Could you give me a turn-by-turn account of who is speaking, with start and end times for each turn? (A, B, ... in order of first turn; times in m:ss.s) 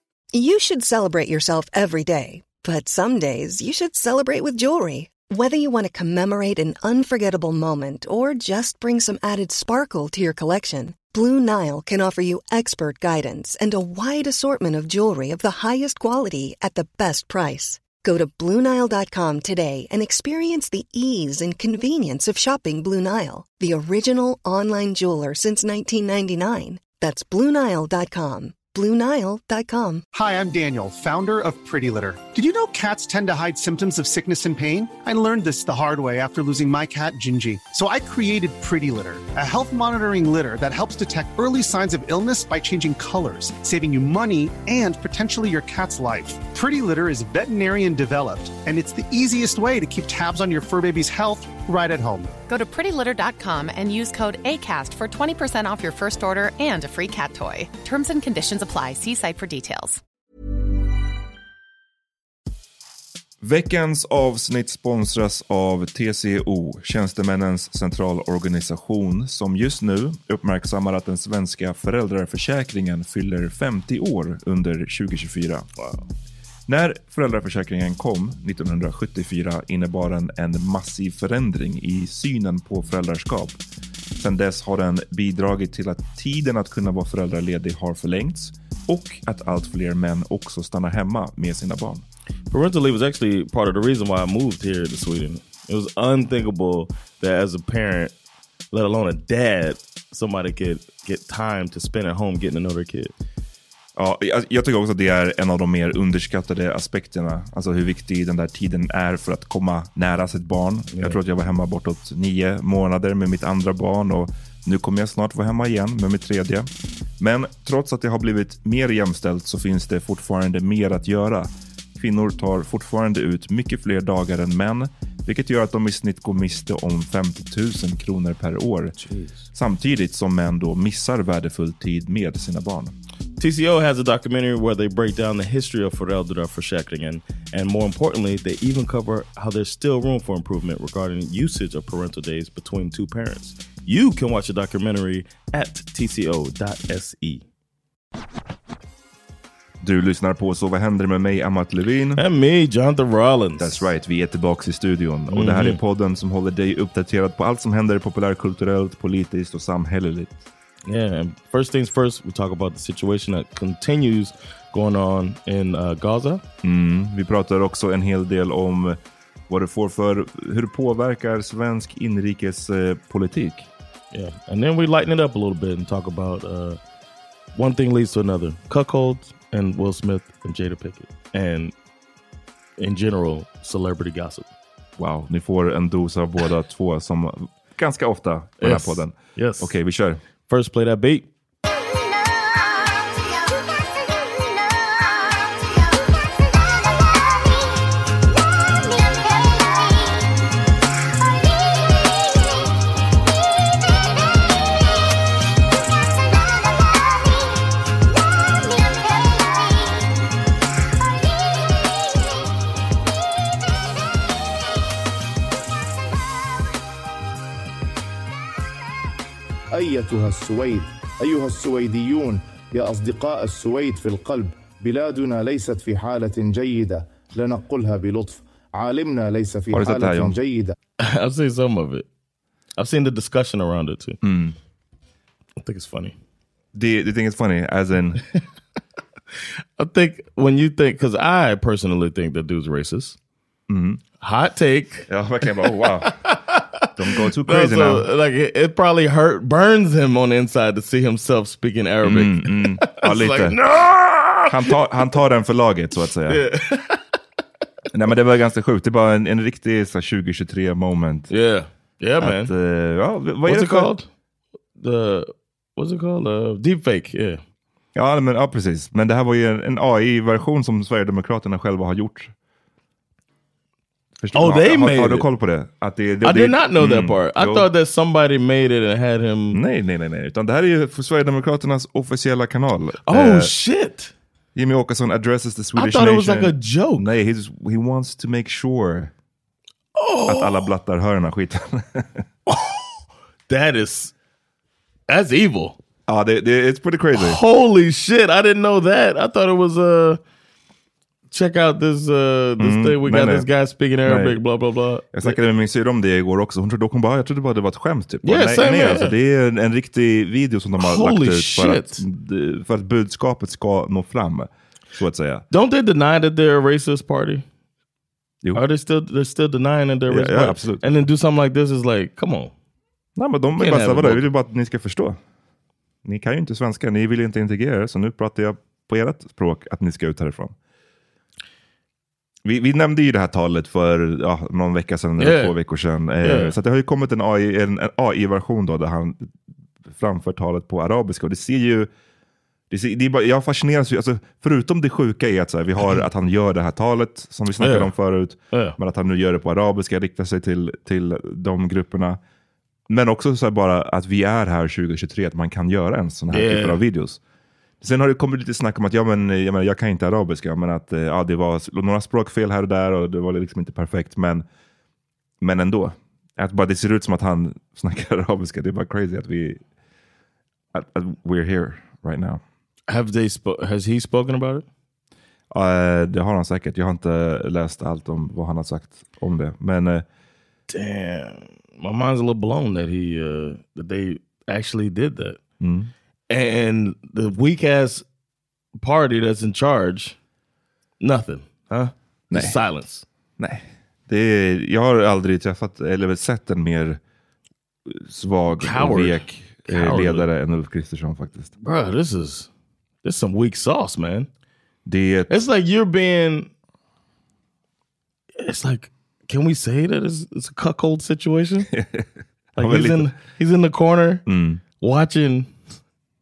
0:00.3-0:30.0 A
0:30.1-0:52.3 B
0:52.5-1:00.0 C
1:03.4-1:15.7 D
1:15.8-1:16.1 E
1:16.7-1:23.6 D
1:24.2-1:32.0 D
1:32.5-1:38.1 E
1:38.7-1:43.1 E
1:44.0-1:56.7 D
1:50.9-1:51.2 E
1:57.2-2:09.0 D
2:09.0-2:09.4 E
2:09.5-2:13.0 D
2:13.4-2:27.4 E
2:29.8-2:32.2 D
2:32.2-2:33.9 E
2:33.6-2:40.4 D
2:35.3-2:35.8 E
2:40.9-2:46.4 E
2:46.6-2:53.7 D
2:54.1-2:56.8 E
2:57.6-3:01.7 E
3:02.8-3:04.5 E
3:05.0-3:10.2 D
3:08.6-3:09.7 E
3:10.5-3:11.3 E
3:39.7-3:50.8 F
3:49.7-3:50.4 D
3:51.0-3:52.1 E
3:52.8-3:54.2 E
3:54.2-3:54.6 D
3:55.6-3:56.2 E
3:56.8-3:58.2 D
3:59.8-4:03.2 E
4:03.7-4:04.0 D
4:04.2-4:05.1 E
4:05.1-4:06.4 D
4:05.7-4:14.8 E
4:07.0-4:08.1 D
4:12.0-4:13.6 D
4:14.5-4:16.4 D
4:16.3-4:17.0 E
4:17.9-4:21.3 D
4:21.3-4:22.5 E
4:22.2-4:23.9 D
4:23.4-4:24.1 E
4:24.8-4:27.4 E
4:28.0-4:32.3 D
4:34.2-4:37.7 D
4:34.4-4:35.3 E
4:36.2-4:39.6 E
4:39.5-4:43.5 D
4:43.1-4:44.1 E
4:44.6-4:49.1 D
4:45.8-4:47.1 E
4:50.0-4:50.6 E
4:50.3-4:52.2 D
4:52.5-4:54.1 E
4:55.1-4:55.8 E
4:56.1-4:57.4 D
4:57.1-5:00.2 E
5:01.3-5:05.4 E
5:02.6-5:03.5 D
5:04.0-5:04.4 D
5:05.1-5:15.5 D
5:08.2-5:09.1 E
5:10.8-5:12.0 E
5:15.5-5:17.5 E
5:18.6-5:22.5 E
5:20.1-5:20.9 D
5:23.2-5:25.2 D
5:23.6-5:24.2 E
5:26.0-5:30.6 D
5:32.4-5:39.3 D
5:35.2-5:35.6 E
5:36.2-5:36.5 E
5:39.9-5:41.9 D
5:42.7-5:52.2 D
5:47.6-5:47.9 E
5:48.5-5:48.8 E
5:52.9-5:57.2 D
5:56.3-5:56.8 E
5:57.8-6:04.4 D
6:05.4-6:09.6 D
6:10.7-6:12.4 D
6:12.9-6:14.7 E
6:15.5-6:20.0 D
6:20.7-6:25.4 E
6:25.6-6:25.9 D
6:26.3-6:28.0 E
6:28.8-6:30.2 E
6:31.0-6:33.1 E
6:32.3-6:32.6 D
6:33.4-6:37.0 D
6:37.9-6:41.5 D
6:38.6-6:40.3 E
6:41.6-6:42.5 E
6:43.0-6:44.3 E
6:44.9-6:45.3 D
6:45.3-6:46.5 E
6:48.4-6:51.7 E
6:51.7-6:53.2 D
6:52.6-6:54.2 E
6:54.3-6:54.6 D
6:54.8-6:55.5 E